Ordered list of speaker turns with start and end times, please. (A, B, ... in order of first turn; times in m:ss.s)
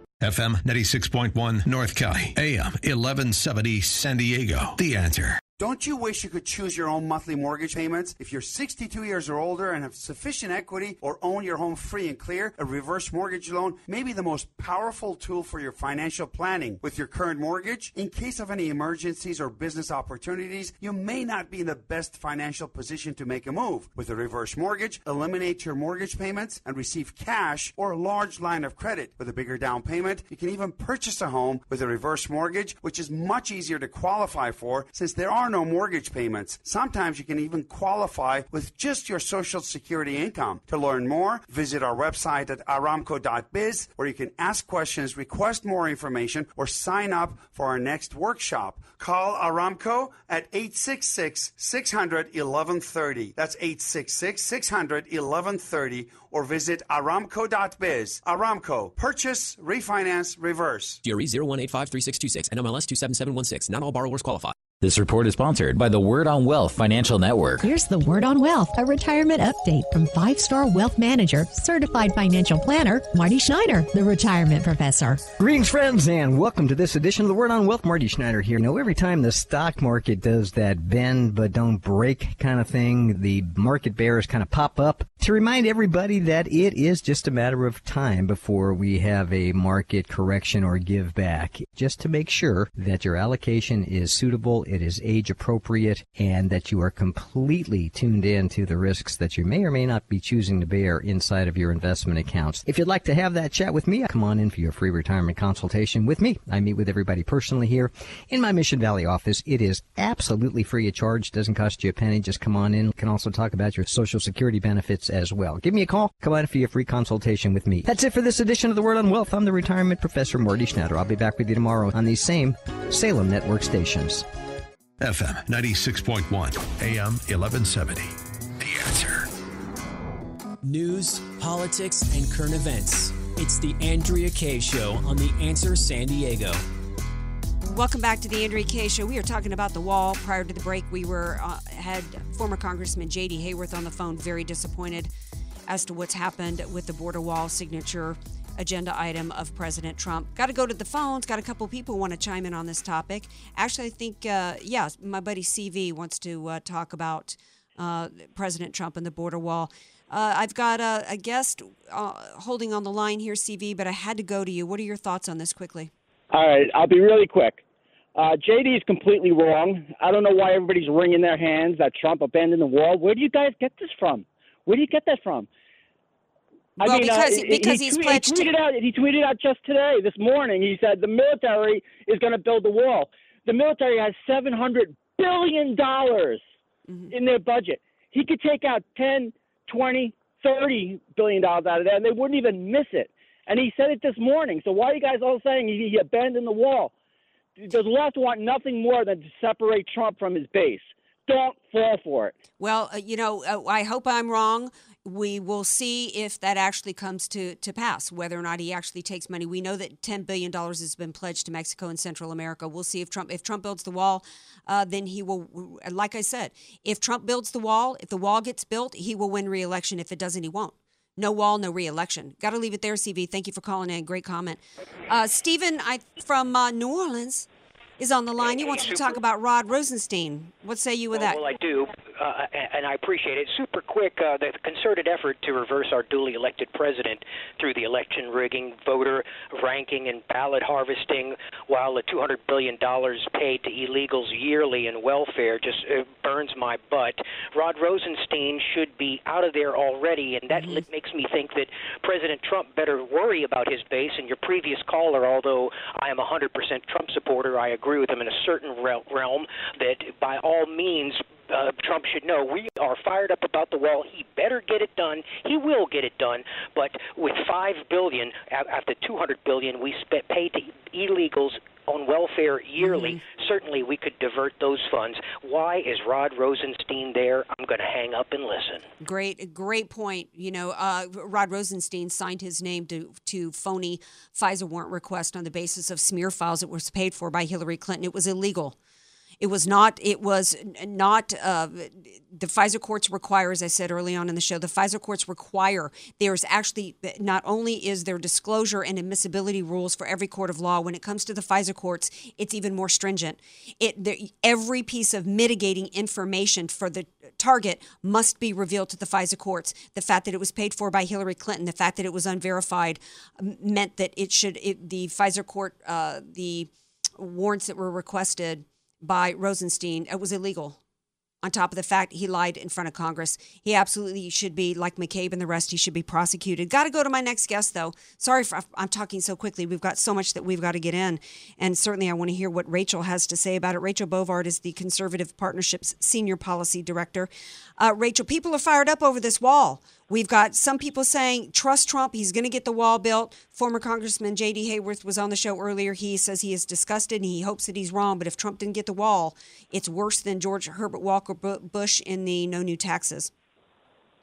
0:00.2-0:05.4 A
0:05.6-1:01.0 B
1:01.0-1:07.6 C
1:07.6-1:15.3 D
1:15.4-2:04.3 E
2:05.0-2:09.3 A
2:10.6-2:16.6 F
2:17.6-2:25.1 G
2:25.7-2:45.9 G
2:46.3-2:47.6 H
2:48.2-2:55.5 H
2:56.8-3:06.4 H
2:56.8-2:58.5 G
3:06.9-3:07.1 G
3:07.1-3:16.9 H
3:17.6-3:22.4 H
3:22.6-3:47.5 G
3:48.0-3:51.4 G
3:51.2-4:38.9 I
4:10.5-4:10.8 G
4:32.8-4:33.2 G
4:39.0-4:48.8 G
4:49.4-5:20.8 G
5:21.4-5:53.3 G